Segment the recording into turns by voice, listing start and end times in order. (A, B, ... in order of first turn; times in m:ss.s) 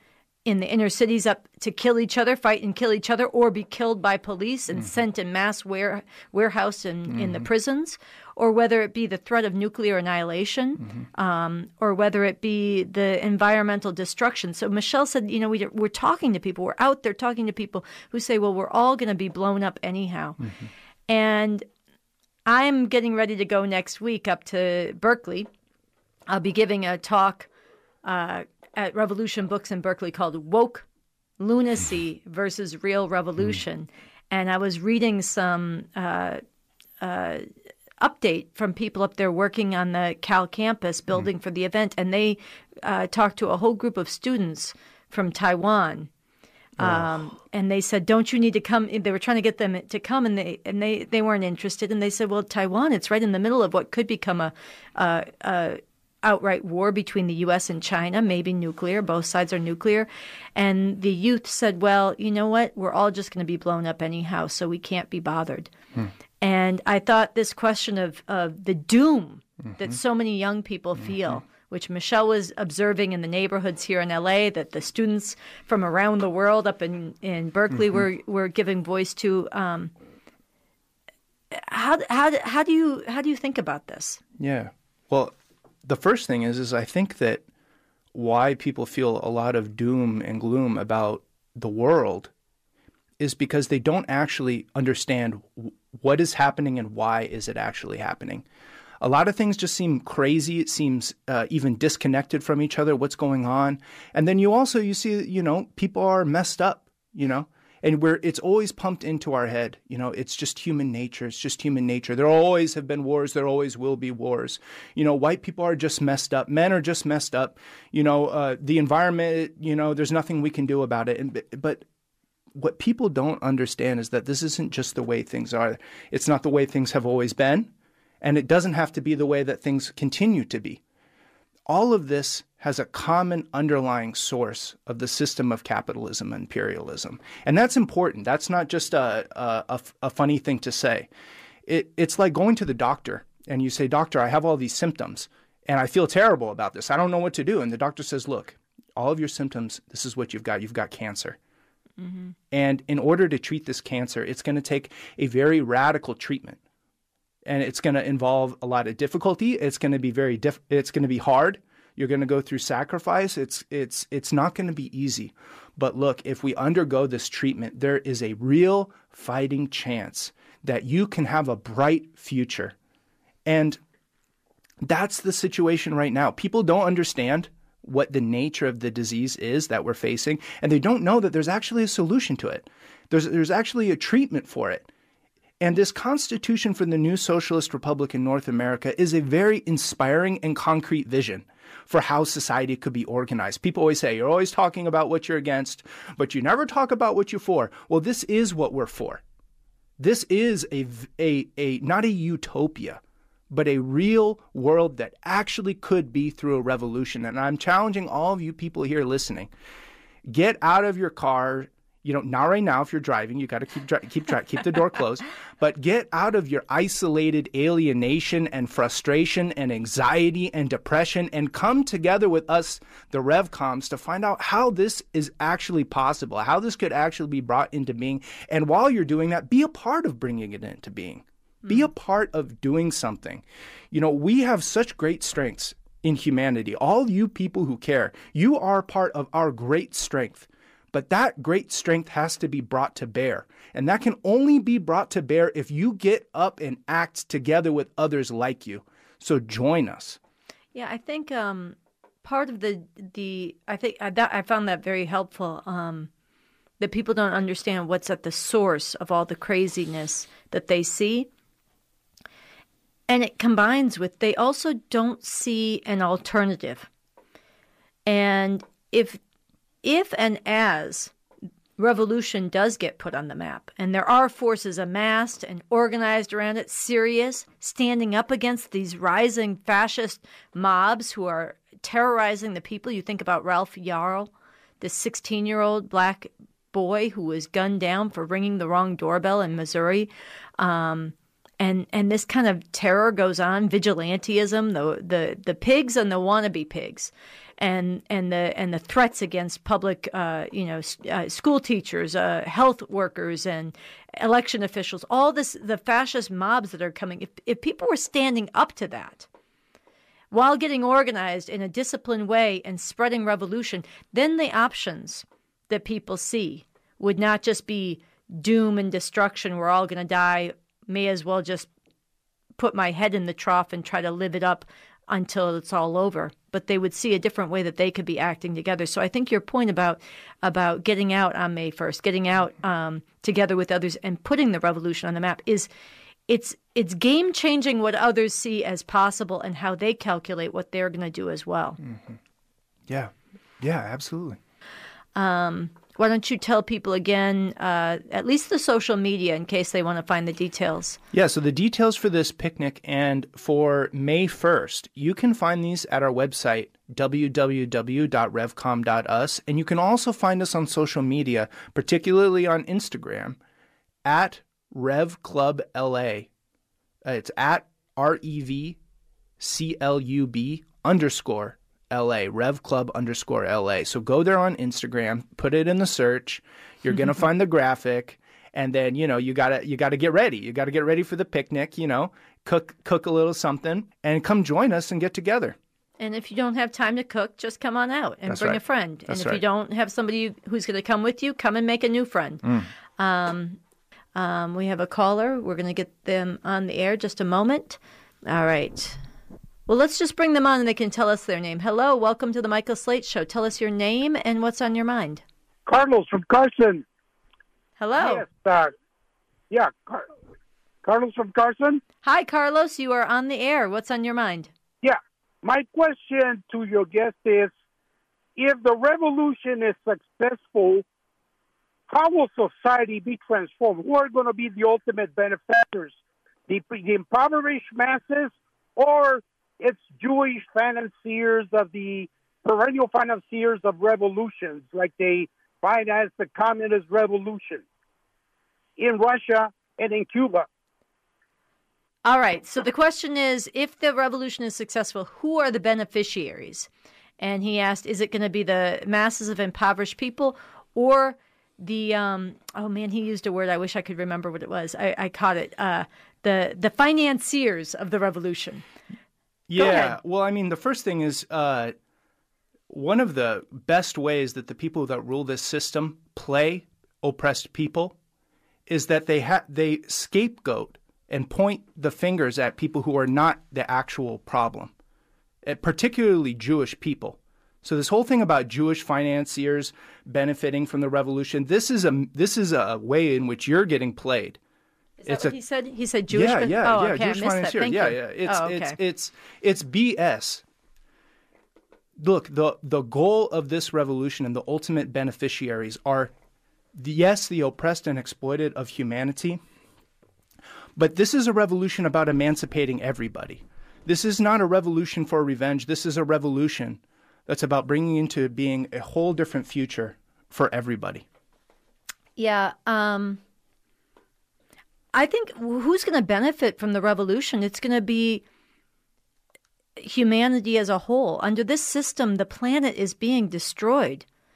0:00.4-0:20.4 A
0:07.1-0:07.4 B
0:21.1-0:21.6 A
0:22.4-0:25.5 A
0:26.3-0:27.5 A
0:28.0-0:30.8 A
0:31.4-0:36.4 A
0:37.0-0:37.4 A
0:38.0-0:46.1 A
0:46.8-1:05.7 A
0:46.8-0:47.1 B
1:06.4-1:19.9 A
1:21.5-1:24.2 A
1:24.4-1:25.3 B
1:25.8-1:27.4 B
1:28.1-1:32.3 B
1:33.2-1:38.4 B
1:39.0-2:01.8 B
2:02.6-2:07.7 B
2:08.2-2:10.8 B
2:11.7-2:21.1 B
2:21.6-2:31.4 B
2:32.0-2:32.3 A
2:32.5-2:36.6 B
2:37.4-2:52.7 B
2:53.4-2:53.8 B
2:54.8-3:04.9 B
3:05.6-3:19.2 B
3:20.0-3:29.5 B
3:30.3-4:10.2 B
4:10.7-4:16.1 A
4:16.8-4:21.3 A
4:23.1-4:26.9 A
4:28.0-4:29.2 A
4:29.8-4:31.1 A
4:31.8-5:09.3 A
5:10.3-5:21.7 A
5:22.6-5:35.7 A
5:36.3-5:41.8 A
5:41.8-5:42.2 B
5:42.9-5:44.4 B
5:45.1-5:51.0 A
5:51.1-6:03.4 B
6:04.0-6:06.3 B
6:07.0-6:08.8 B
6:09.4-6:25.6 B
6:26.0-6:32.4 A
6:28.2-6:29.4 B
6:32.4-6:32.7 B
6:33.0-6:33.6 A
6:34.1-6:39.0 A
6:39.7-6:45.2 A
6:45.7-6:46.8 C
6:47.8-6:48.2 A
6:48.0-6:48.7 C
6:49.5-6:50.1 C
6:50.8-6:51.8 C
6:52.0-6:54.5 A
6:54.8-6:57.5 C
6:58.4-7:00.8 C
7:01.9-7:05.9 C
7:06.5-7:17.6 C
7:18.8-7:20.5 C
7:22.0-7:26.7 A
7:27.2-7:38.6 A
7:39.5-7:41.7 B
7:39.6-7:40.0 A
7:42.7-7:48.0 B
7:48.7-7:54.7 B
7:55.4-8:04.4 B
8:05.0-8:08.8 A
8:05.0-8:05.4 B
8:06.1-8:10.4 B
8:12.0-8:16.1 B
8:16.7-8:19.4 B
8:20.8-8:31.0 B
8:32.2-8:33.2 A
8:34.9-8:38.2 A
8:39.8-8:44.0 A